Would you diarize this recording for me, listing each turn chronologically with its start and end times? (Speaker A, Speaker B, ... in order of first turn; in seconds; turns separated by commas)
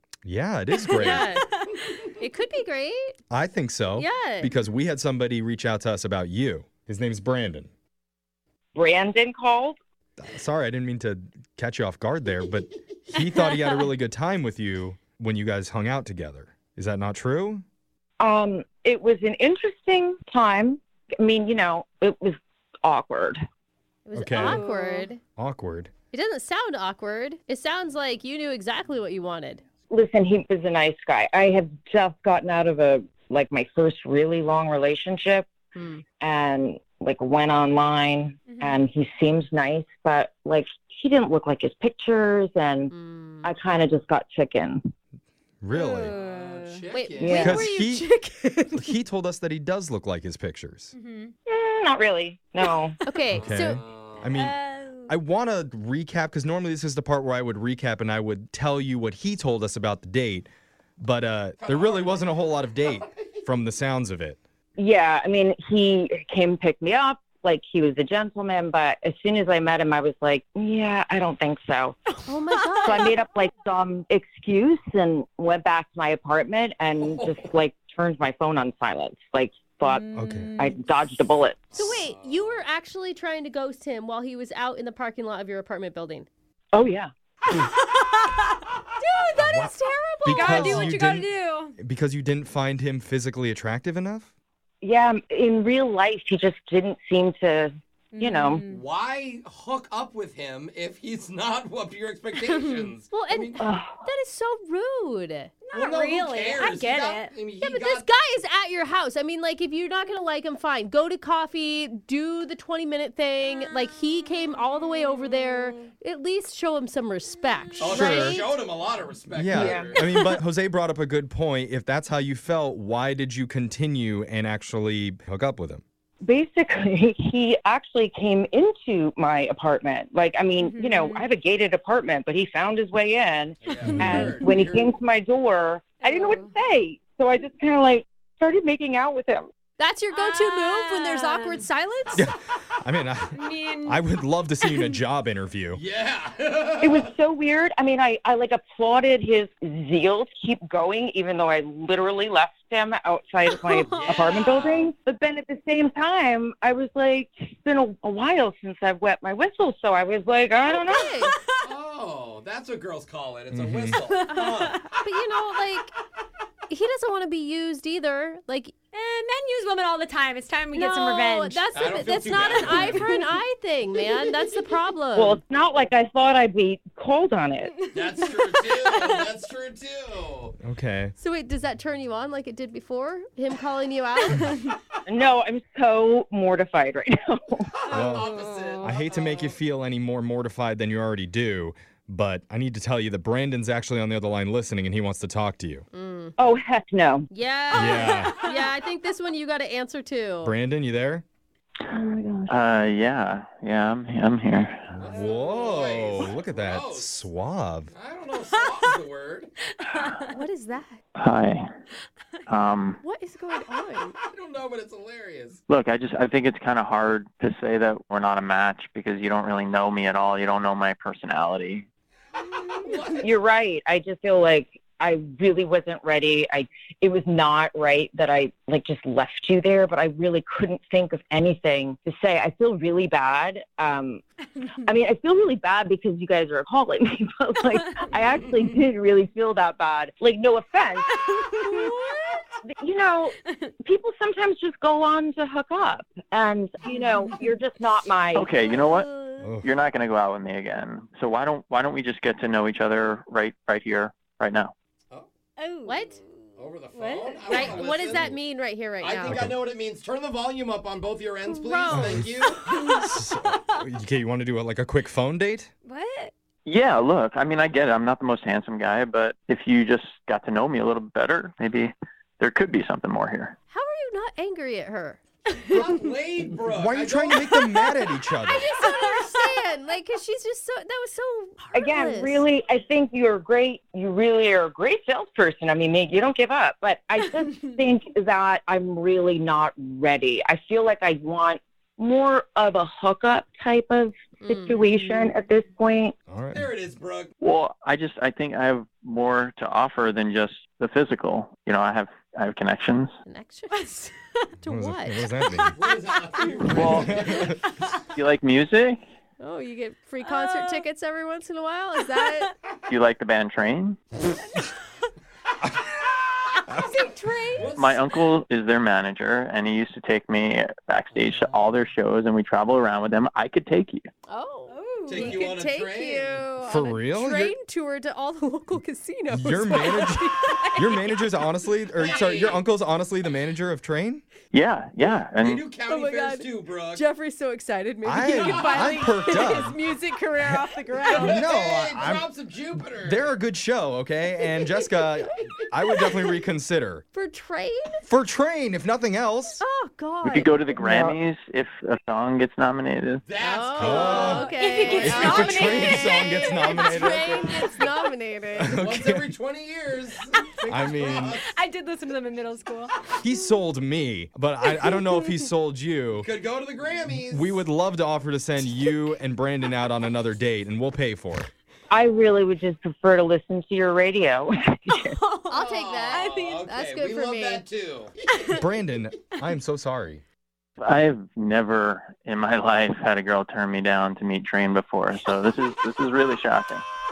Speaker A: 0.2-1.4, Speaker B: 0.9-2.0, Speaker C: 0.9-1.4, Speaker C: 2.0-3.2, Speaker A: 3.3-7.7, Speaker C: 3.9-4.5, Speaker D: 8.7-9.8, Speaker A: 10.2-17.6, Speaker D: 18.2-23.4, Speaker C: 24.0-25.2, Speaker A: 24.1-24.6, Speaker B: 24.4-25.1, Speaker A: 25.4-25.9, Speaker C: 26.1-29.6, Speaker D: 29.9-35.5, Speaker C: 35.7-36.0, Speaker D: 36.2-42.9, Speaker B: 38.5-38.8, Speaker C: 42.9-43.5, Speaker D: 43.4-44.9, Speaker A: 45.6-46.1, Speaker B: 45.7-46.8, Speaker E: 46.0-47.7, Speaker C: 46.9-48.9, Speaker D: 47.2-47.6, Speaker A: 47.3-48.1, Speaker A: 48.7-50.9, Speaker B: 50.9-51.3, Speaker D: 51.5-53.0, Speaker C: 53.0-53.8, Speaker E: 53.3-54.5, Speaker A: 53.3-64.4, Speaker B: 54.3-55.1, Speaker E: 61.6-63.5, Speaker D: 64.8-71.9, Speaker B: 72.2-73.0, Speaker C: 72.2-73.1, Speaker D: 72.8-80.0, Speaker E: 76.9-77.5, Speaker B: 79.8-80.8, Speaker A: 80.1-80.5, Speaker D: 80.6-81.7, Speaker E: 81.7-82.7, Speaker C: 81.7-86.3, Speaker D: 86.7-87.1, Speaker B: 87.5-88.7, Speaker C: 89.0-91.0, Speaker A: 89.4-94.3, Speaker B: 90.3-91.8, Speaker D: 94.8-98.6, Speaker B: 98.1-98.8, Speaker E: 98.6-103.6, Speaker B: 102.5-102.9, Speaker C: 103.1-105.5, Speaker D: 103.6-104.0, Speaker B: 105.7-107.3, Speaker E: 105.7-108.1, Speaker C: 107.6-118.5, Speaker B: 113.4-115.9, Speaker B: 117.6-117.9, Speaker E: 117.8-120.0, Speaker A: 117.8-118.5, Speaker A: 119.3-125.8, Speaker D: 119.5-119.9, Speaker B: 119.9-120.4, Speaker D: 126.2-139.5, Speaker B: 130.6-131.3, Speaker E: 133.6-134.9, Speaker A: 133.8-134.4, Speaker B: 136.0-136.5, Speaker C: 139.8-142.3, Speaker B: 140.1-141.6, Speaker A: 142.1-145.8, Speaker B: 143.3-144.0, Speaker B: 144.6-145.0, Speaker E: 145.7-147.1, Speaker D: 146.8-161.1, Speaker B: 153.5-154.6, Speaker E: 154.0-154.9, Speaker C: 160.8-161.3, Speaker B: 161.1-161.7, Speaker E: 161.6-164.9, Speaker A: 163.5-164.0, Speaker B: 164.1-164.8, Speaker C: 165.0-165.9, Speaker C: 166.7-168.7, Speaker B: 168.9-171.6, Speaker C: 170.7-175.4, Speaker E: 171.7-173.2, Speaker B: 172.7-173.0, Speaker D: 175.1-177.8, Speaker E: 177.8-180.6, Speaker B: 178.8-179.1, Speaker A: 180.6-181.1, Speaker C: 181.2-184.7, Speaker D: 185.1-187.7, Speaker E: 187.8-189.5, Speaker B: 187.9-189.5, Speaker A: 187.9-195.8, Speaker C: 195.9-196.4, Speaker D: 196.4-197.3, Speaker C: 197.3-200.5, Speaker A: 197.7-198.4, Speaker B: 197.8-198.6, Speaker A: 200.4-201.2, Speaker D: 201.9-202.6, Speaker F: 202.5-205.0, Speaker A: 204.9-207.9, Speaker E: 205.0-207.3, Speaker E: 207.9-209.5, Speaker B: 208.5-208.9, Speaker B: 209.7-210.3, Speaker C: 210.3-211.0, Speaker F: 211.2-211.6, Speaker F: 212.5-213.0, Speaker C: 213.0-214.2, Speaker E: 214.2-215.6, Speaker F: 215.7-221.8, Speaker E: 222.4-223.4, Speaker D: 223.2-234.2, Speaker D: 234.8-241.1, Speaker B: 241.1-242.4, Speaker D: 242.6-248.5, Speaker F: 248.3-249.1, Speaker B: 248.6-249.5, Speaker A: 249.4-249.7, Speaker F: 249.6-254.7, Speaker B: 255.6-257.8, Speaker C: 255.8-256.2, Speaker E: 256.6-258.3, Speaker C: 257.5-259.5, Speaker E: 259.0-262.7, Speaker A: 259.3-259.6, Speaker C: 261.5-262.3, Speaker A: 261.9-265.7, Speaker B: 262.7-263.4, Speaker B: 265.8-266.3, Speaker F: 266.6-273.5, Speaker C: 273.7-275.2, Speaker E: 275.7-277.5, Speaker A: 276.7-278.7, Speaker C: 278.4-282.4, Speaker B: 278.8-279.5, Speaker D: 281.7-296.1, Speaker C: 294.4-294.9, Speaker A: 296.3-296.7, Speaker E: 296.5-297.3, Speaker F: 297.4-303.1, Speaker C: 303.2-304.1, Speaker C: 304.6-305.2, Speaker A: 304.6-305.8, Speaker E: 305.7-307.5, Speaker C: 306.4-306.9, Speaker B: 306.6-307.9, Speaker F: 306.8-307.1, Speaker A: 306.8-307.5, Speaker F: 308.1-309.0, Speaker C: 309.4-312.5, Speaker B: 310.2-310.9, Speaker B: 312.1-312.5, Speaker F: 312.9-314.0, Speaker C: 316.7-317.7, Speaker E: 317.5-318.3, Speaker F: 317.7-324.1, Speaker E: 321.1-321.8, Speaker C: 324.3-331.1, Speaker B: 324.7-325.5, Speaker E: 325.1-326.5, Speaker A: 326.6-327.5, Speaker A: 329.3-334.2, Speaker E: 332.0-332.6, Speaker F: 334.5-335.7, Speaker E: 335.4-337.0, Speaker C: 335.9-341.5, Speaker A: 338.0-339.8, Speaker E: 338.1-339.1, Speaker A: 340.4-347.0, Speaker E: 341.1-343.3, Speaker C: 347.1-348.0, Speaker A: 348.1-349.6, Speaker C: 349.6-350.9, Speaker F: 350.2-353.2, Speaker D: 350.9-351.2, Speaker E: 353.2-356.3, Speaker C: 353.4-358.8, Speaker A: 353.8-357.7, Speaker B: 353.8-357.9, Speaker A: 358.6-359.3, Speaker E: 358.8-361.5, Speaker B: 360.3-362.9, Speaker A: 360.7-361.4, Speaker A: 363.2-366.3, Speaker B: 364.6-365.4, Speaker E: 366.1-367.6, Speaker A: 367.3-371.5, Speaker D: 371.9-375.1, Speaker B: 374.9-376.6, Speaker C: 375.5-377.6, Speaker E: 375.5-378.2, Speaker B: 378.3-378.6, Speaker A: 378.5-380.2, Speaker F: 380.8-386.8